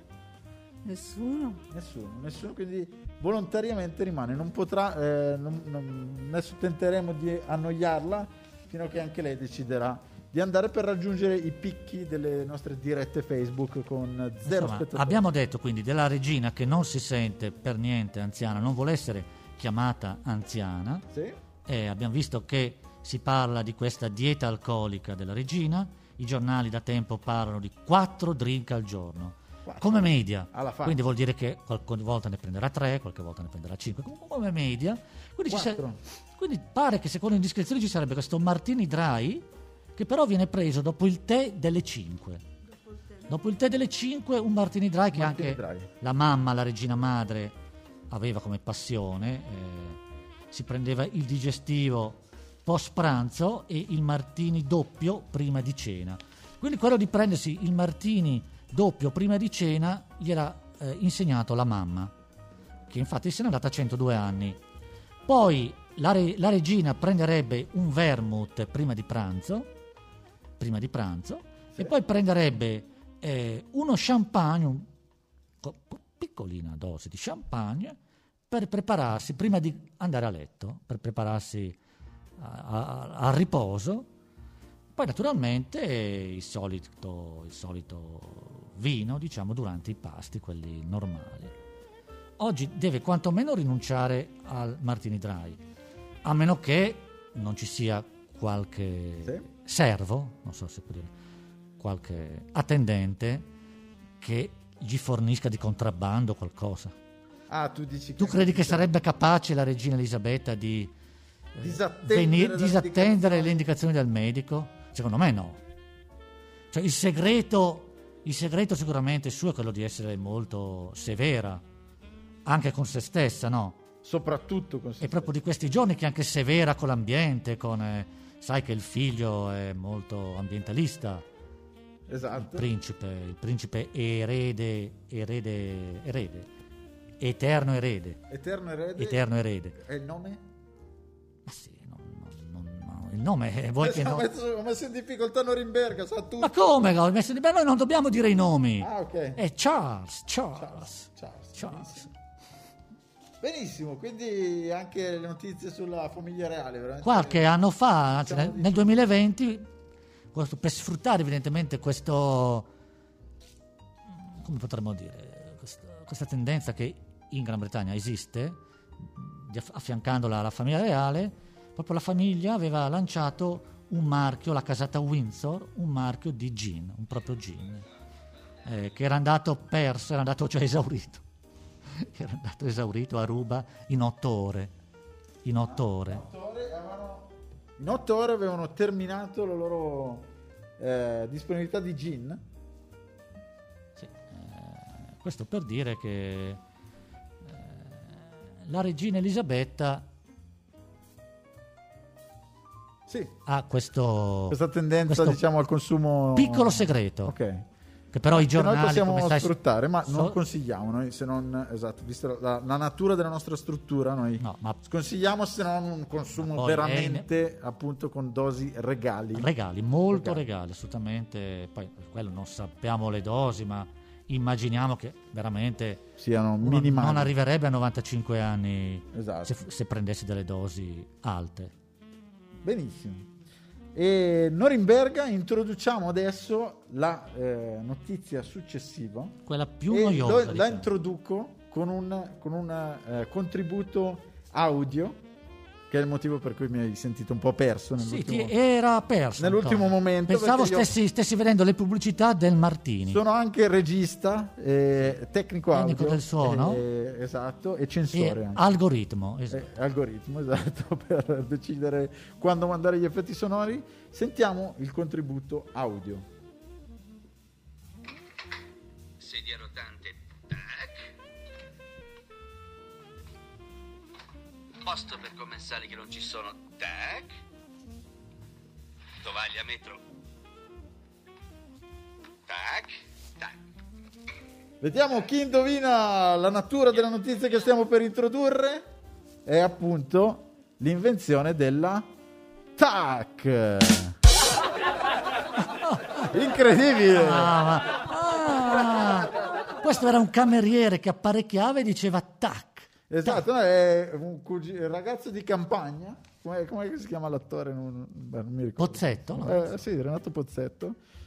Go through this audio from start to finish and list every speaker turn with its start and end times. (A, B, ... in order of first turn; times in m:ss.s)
0:01.7-0:15.2 A
0:14.4-0:21.0 B
0:21.1-0:21.4 A
0:21.6-0:35.8 B
0:29.6-0:31.0 A
0:35.5-0:36.0 A
0:36.4-0:39.4 B
0:40.0-0:42.4 B
0:43.3-0:47.6 B
0:45.1-0:45.9 A
0:48.1-0:50.0 B
0:50.5-1:02.1 B
1:02.9-1:04.6 B
1:05.3-1:09.7 B
1:10.6-1:14.9 B
1:15.6-1:18.0 B
1:18.5-1:21.8 B
1:22.4-1:24.1 B
1:24.9-1:31.5 B
1:32.4-1:35.6 B
1:36.2-1:41.1 B
1:41.8-1:43.5 B
1:44.2-1:46.9 B
1:47.5-1:48.9 A
1:48.2-1:50.9 B
1:51.6-1:55.6 B
1:51.6-1:53.6 A
1:56.7-2:01.6 B
2:02.4-2:03.8 B
2:04.0-2:05.3 A
2:05.0-2:11.2 B
2:12.1-2:12.7 A
2:12.4-2:16.5 B
2:17.2-2:18.2 B
2:18.3-2:19.2 A
2:19.0-2:19.8 B
2:19.8-2:20.4 A
2:21.4-2:24.3 B
2:23.8-2:26.6 A
2:26.4-2:32.1 B
2:28.8-2:29.4 A
2:30.6-2:32.1 A
2:33.4-2:37.4 A
2:37.0-2:39.7 B
2:38.2-2:39.0 A
2:40.3-2:42.7 B
2:44.2-2:57.8 B
2:58.6-3:01.2 B
3:01.9-3:04.7 B
3:05.4-3:06.2 B
3:05.6-3:10.3 A
3:10.8-3:12.4 A
3:14.0-3:16.6 B
3:17.4-3:20.1 B
3:23.1-3:23.3 A
3:23.5-3:25.4 B
3:24.5-3:27.6 A
3:26.4-3:27.3 B
3:28.1-3:29.6 B
3:28.3-3:39.5 A
3:30.1-3:30.4 B
3:34.4-3:34.8 B
3:36.4-3:37.3 B
3:39.4-3:46.1 B
3:40.1-3:40.4 A
3:46.2-3:47.3 A
3:46.6-3:51.7 B
3:49.1-3:49.5 A
3:52.6-3:53.3 A
3:53.9-3:59.4 A
3:59.4-4:00.9 B
3:59.9-4:05.2 A
4:05.9-4:08.5 A
4:08.0-4:13.2 B
4:09.4-4:10.9 A
4:13.1-4:18.6 A
4:15.7-4:16.8 B
4:18.1-4:19.7 B
4:19.5-4:26.3 A
4:29.2-4:31.1 C
4:34.8-4:37.3 C
4:39.2-4:40.0 C
4:42.5-4:43.6 C
4:44.8-4:48.8 A
4:49.4-4:52.1 A
4:52.8-4:54.2 A
4:55.8-4:56.2 B
4:56.3-4:57.5 A
4:57.1-5:03.4 B
5:03.1-5:11.0 A
5:08.8-5:09.7 B